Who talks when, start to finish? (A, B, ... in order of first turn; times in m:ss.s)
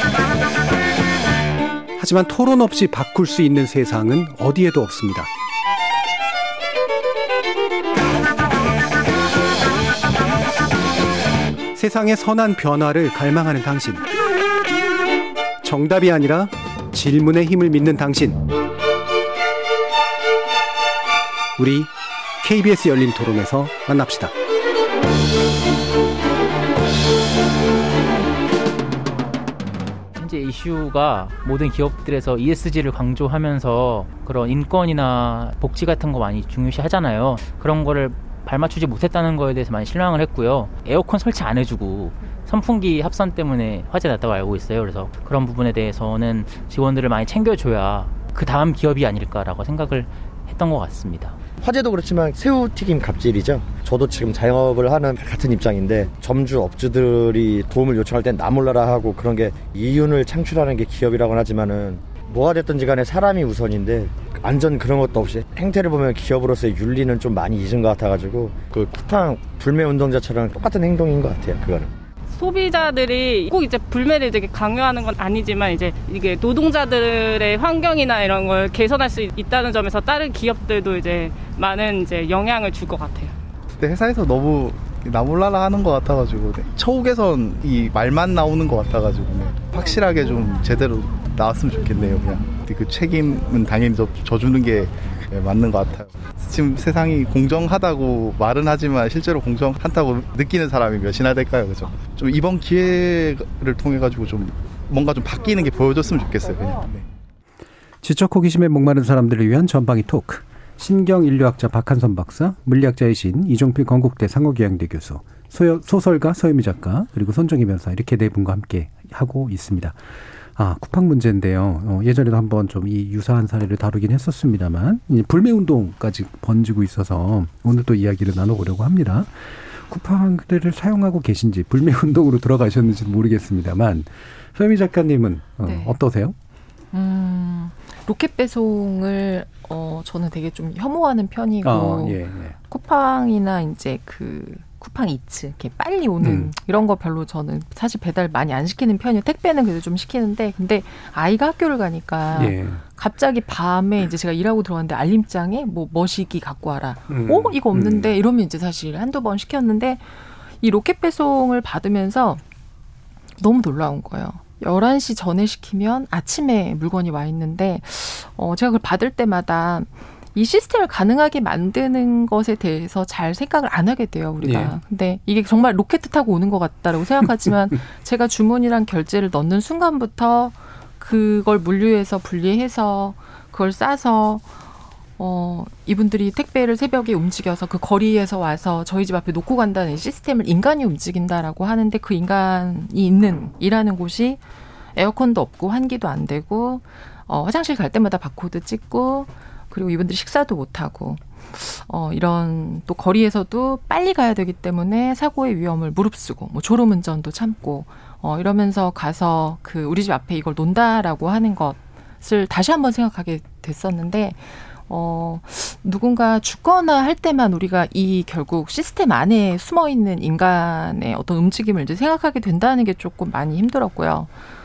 0:02.0-0:05.3 A
0:11.7-0:14.1 A
0:15.6-0:18.4 A
0:21.6-0:24.3 A
0:30.1-0:51.4 B
0:51.6-1:11.9 C
1:12.4-1:23.4 D
1:23.8-1:47.0 E
1:48.0-2:00.0 A
2:00.6-2:16.4 A
2:15.6-2:16.0 F
2:16.9-2:40.0 F
2:21.6-2:22.6 A
2:26.2-2:26.5 A
2:32.3-2:32.8 A
2:37.1-2:38.1 A
2:40.6-2:42.4 F
2:43.4-3:04.5 F
2:54.4-2:54.8 A
3:05.2-3:14.4 F
3:15.0-3:44.3 F